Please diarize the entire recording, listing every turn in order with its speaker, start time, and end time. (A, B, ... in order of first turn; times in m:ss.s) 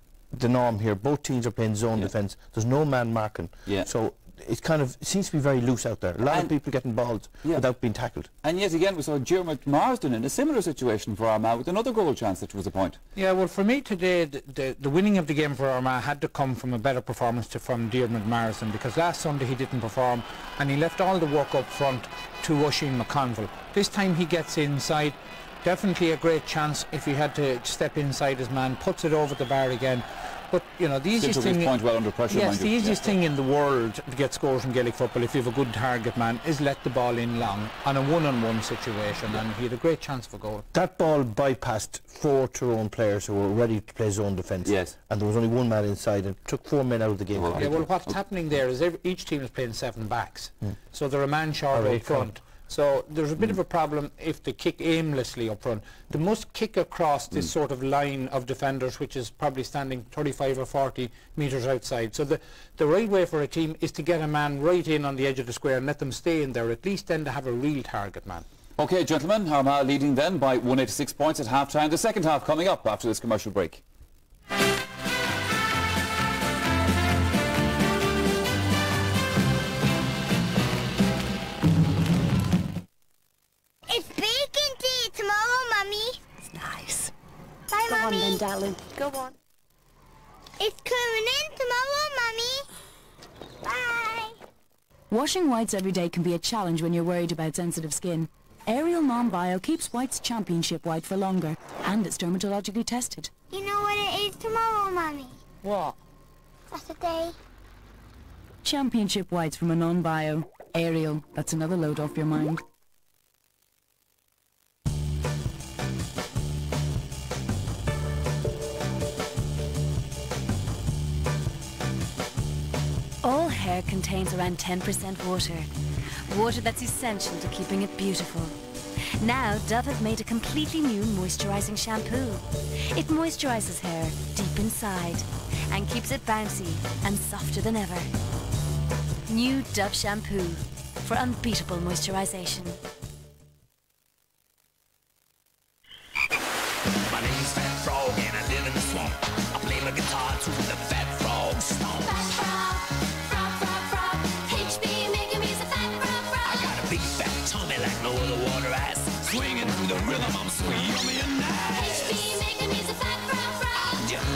0:00.3-0:08.3 A
0:06.3-0:06.5 B
0:08.4-0:13.0 B
0:13.2-0:40.6 C
0:31.2-0:33.1 B
0:40.7-0:47.9 A
0:44.6-0:44.9 B
0:47.4-0:48.1 B
0:47.6-1:08.4 C
0:51.7-0:52.3 A
1:08.8-1:13.8 B
1:23.9-1:26.2 D
1:26.5-1:27.1 E
1:27.7-1:28.5 D
1:27.9-1:28.8 E
1:30.6-1:32.6 D
1:33.6-1:34.3 D
1:35.1-1:43.3 E
1:43.5-1:45.4 D
1:45.6-1:45.9 E
1:46.7-1:47.3 D
1:48.6-1:52.6 E
2:03.2-2:05.7 E
2:06.3-2:08.6 E
2:09.2-2:18.1 E
2:19.3-2:22.8 E
2:27.2-2:29.1 F
2:29.7-2:31.9 F
2:36.4-2:42.2 F